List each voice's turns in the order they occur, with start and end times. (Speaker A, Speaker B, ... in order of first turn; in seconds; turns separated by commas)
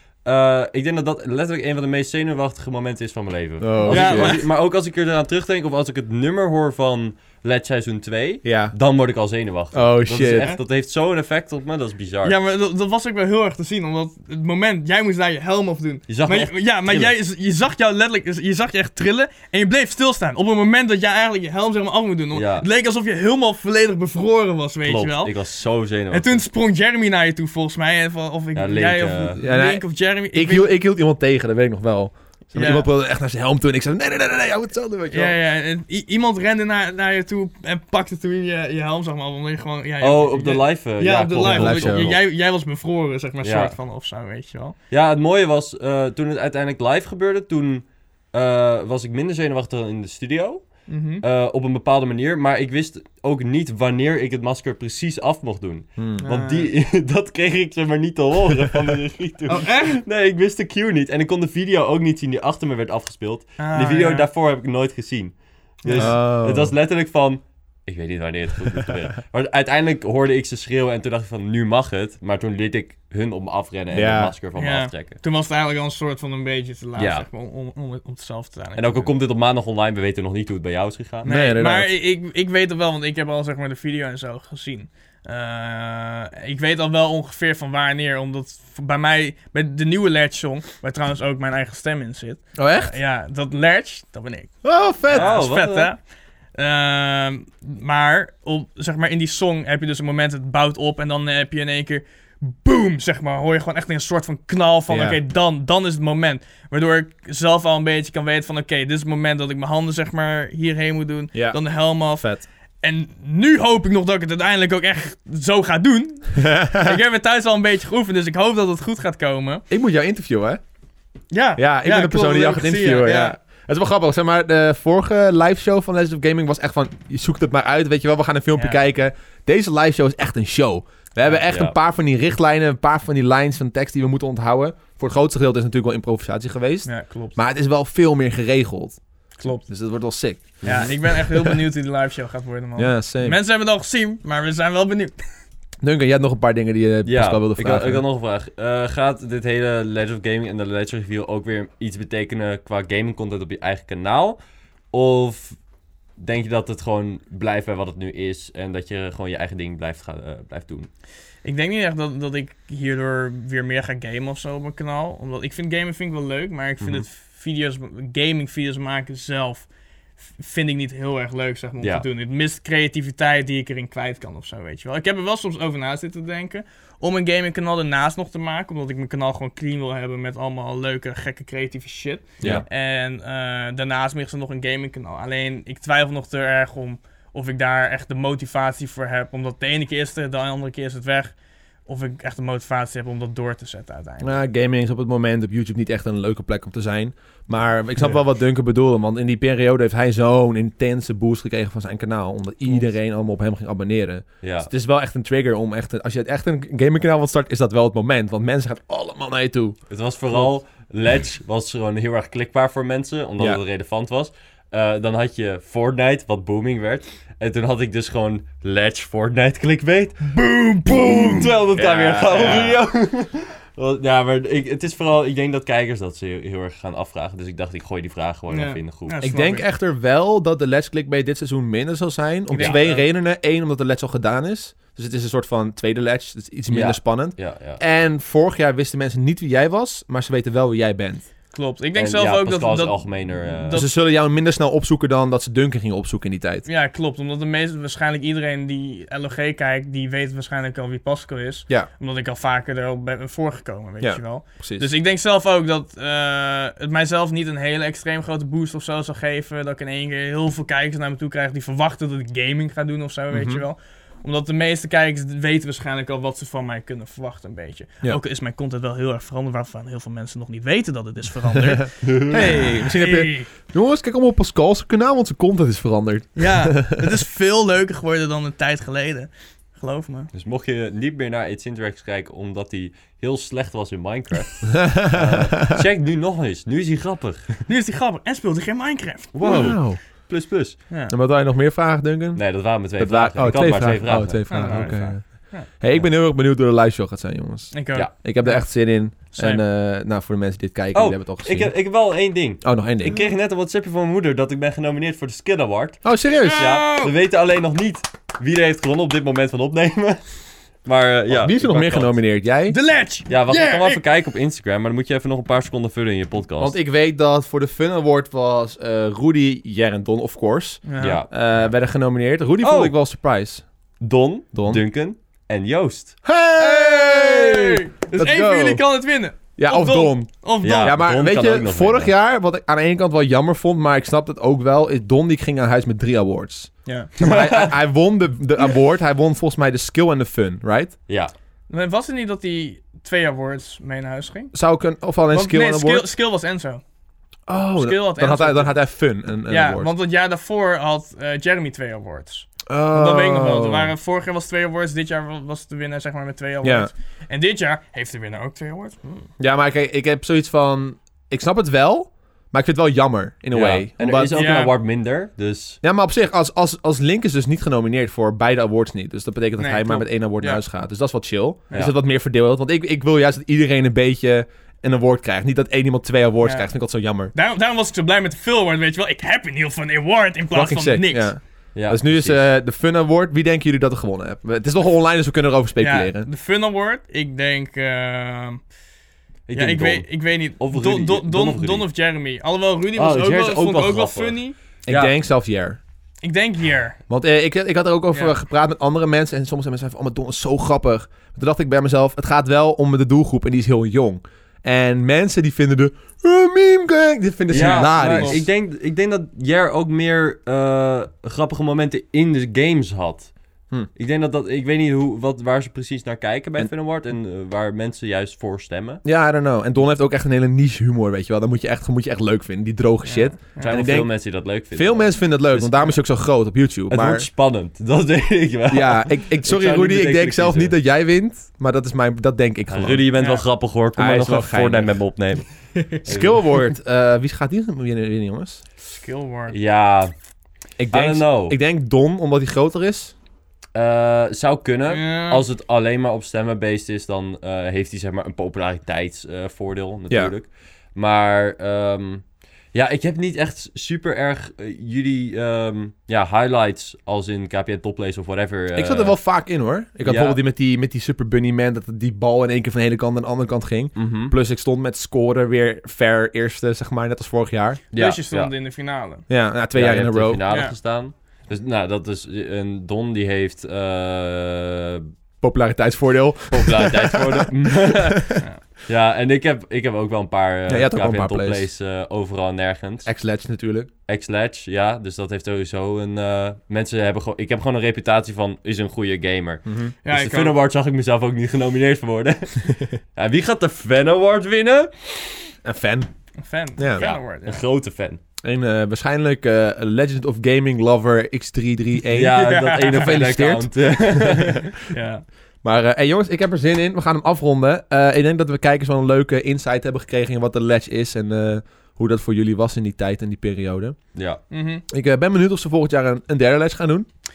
Speaker A: 0.2-12.4, Speaker B: 3.6-4.4, Speaker C: 3.9-4.4, Speaker B: 8.4-8.7, Speaker B: 9.7-10.5, Speaker C: 12.2-25.3, Speaker A: 16.1-17.1, Speaker A: 22.3-22.7, Speaker A: 24.8-26.4, Speaker C: 26.1-30.7, Speaker A: 28.5-29.4, Speaker B: 29.4-35.4, Speaker C: 32.5-32.9, Speaker C: 35.1-44.7, Speaker A: 40.0-42.2, Speaker B: 41.4-42.1, Speaker A: 43.4-43.7, Speaker A: 44.9-75.2, Speaker C: 50.9-51.2, Speaker B: 56.0-56.2, Speaker C: 56.2-56.7, Speaker C: 59.5-60.0, Speaker C: 63.6-64.3, Speaker C: 65.8-66.1, Speaker B: 65.9-66.7, Speaker B: 73.9-74.3, Speaker C: 74.6-79.1, Speaker A: 77.0-77.2, Speaker A: 78.8-81.3, Speaker C: 81.2-94.5, Speaker B: 81.2-81.9, Speaker B: 92.5-92.9, Speaker B: 94.6-95.4, Speaker C: 95.1-96.0, Speaker A: 95.1-95.9, Speaker C: 96.6-119.6, Speaker B: 104.9-105.2, Speaker B: 111.3-111.6, Speaker B: 112.1-112.5, Speaker B: 116.3-117.0, Speaker B: 119.7-120.6, Speaker C: 121.3-123.3, Speaker B: 121.6-141.6, Speaker A: 131.5-131.7, Speaker C: 136.8-137.4, Speaker C: 139.4-139.7, Speaker A: 140.6-140.9, Speaker C: 140.6-145.2, Speaker B: 142.8-143.4, Speaker B: 145.8-148.0, Speaker A: 147.1-154.4, Speaker A: 154.9-155.6, Speaker A: 156.2-160.9, Speaker C: 161.4-169.7, Speaker A: 166.8-167.1, Speaker C: 170.4-191.3, Speaker C: 191.8-194.3, Speaker B: 194.2-209.8, Speaker A: 204.4-204.7, Speaker A: 209.9-220.4, Speaker C: 220.3-221.5, Speaker A: 220.9-229.2, Speaker B: 221.1-222.8, Speaker C: 222.3-222.8, Speaker C: 228.5-229.6, Speaker B: 229.2-241.2, Speaker C: 232.5-233.1, Speaker A: 236.7-237.8, Speaker C: 241.5-243.9, Speaker A: 241.9-243.8, Speaker B: 243.7-246.6, Speaker C: 246.7-273.5, Speaker B: 254.0-254.9, Speaker B: 263.3-263.6, Speaker B: 271.5-277.2, Speaker A: 272.0-272.5, Speaker C: 276.4-280.3, Speaker A: 280.3-287.7, Speaker B: 284.7-285.8, Speaker C: 287.7-289.3, Speaker A: 289.3-290.8, Speaker B: 289.4-290.0, Speaker B: 291.1-301.7, Speaker A: 292.3-294.9, Speaker C: 294.5-295.7, Speaker C: 297.7-298.6, Speaker C: 299.3-299.6, Speaker A: 300.9-312.2, Speaker B: 302.6-303.2, Speaker B: 306.0-306.7, Speaker C: 306.4-307.1, Speaker B: 311.3-312.8, Speaker C: 312.7-314.0, Speaker A: 313.3-316.8, Speaker B: 316.6-323.6, Speaker C: 320.9-321.2, Speaker A: 321.0-321.5, Speaker A: 322.6-322.9, Speaker A: 324.0-326.1, Speaker B: 324.5-324.8, Speaker B: 326.2-328.9, Speaker C: 326.6-331.0, Speaker B: 329.6-340.9, Speaker A: 330.6-332.1, Speaker A: 337.2-337.8, Speaker C: 341.7-344.5, Speaker B: 344.5-346.1, Speaker C: 345.3-346.8, Speaker B: 347.5-349.9, Speaker C: 347.8-348.8, Speaker C: 349.5-359.3, Speaker B: 352.7-353.9, Speaker B: 356.6-356.9, Speaker B: 359.4-364.3, Speaker A: 363.5-365.8, Speaker C: 364.3-364.7, Speaker B: 365.8-377.3, Speaker C: 369.6-370.6, Speaker C: 376.4-376.7, Speaker C: 377.3-381.3, Speaker B: 380.5-386.3, Speaker A: 381.7-382.4, Speaker C: 385.8-388.6, Speaker A: 389.5-391.9, Speaker C: 389.5-394.5, Speaker A: 393.0-395.1, Speaker B: 394.9-395.8, Speaker C: 396.2-397.0, Speaker B: 397.1-408.5, Speaker A: 407.5-413.3, Speaker C: 407.5-408.4, Speaker A: 413.9-419.0, Speaker B: 419.0-424.1, Speaker C: 423.0-423.8, Speaker A: 423.6-426.0, Speaker B: 424.7-427.3, Speaker A: 426.9-430.8, Speaker B: 428.7-433.0, Speaker A: 432.7-436.5, Speaker C: 433.2-433.4, Speaker B: 434.0-435.0, Speaker C: 435.8-436.0, Speaker B: 436.1-438.6, Speaker C: 438.8-439.6, Speaker A: 439.5-440.1, Speaker B: 440.8-443.1, Speaker A: 440.9-441.6, Speaker A: 443.7-459.1, Speaker C: 444.9-445.4, Speaker B: 458.7-467.8, Speaker A: 460.0-460.4, Speaker A: 463.9-464.3, Speaker A: 467.9-468.5, Speaker C: 467.9-469.2, Speaker B: 469.3-470.4, Speaker A: 469.7-475.1, Speaker C: 470.5-470.7, Speaker B: 475.4-478.4, Speaker A: 476.5-483.1, Speaker B: 480.7-481.7, Speaker B: 483.0-483.9, Speaker A: 484.1-495.5, Speaker B: 489.6-489.9, Speaker C: 490.0-490.6, Speaker B: 495.6-496.1, Speaker C: 496.4-497.6, Speaker B: 496.8-497.1, Speaker A: 497.0-498.2, Speaker B: 498.4-504.7, Speaker A: 502.1-504.6, Speaker C: 502.4-503.2, Speaker C: 504.9-505.2, Speaker B: 505.6-514.0, Speaker A: 514.1-514.4, Speaker C: 514.5-514.8, Speaker B: 514.9-517.0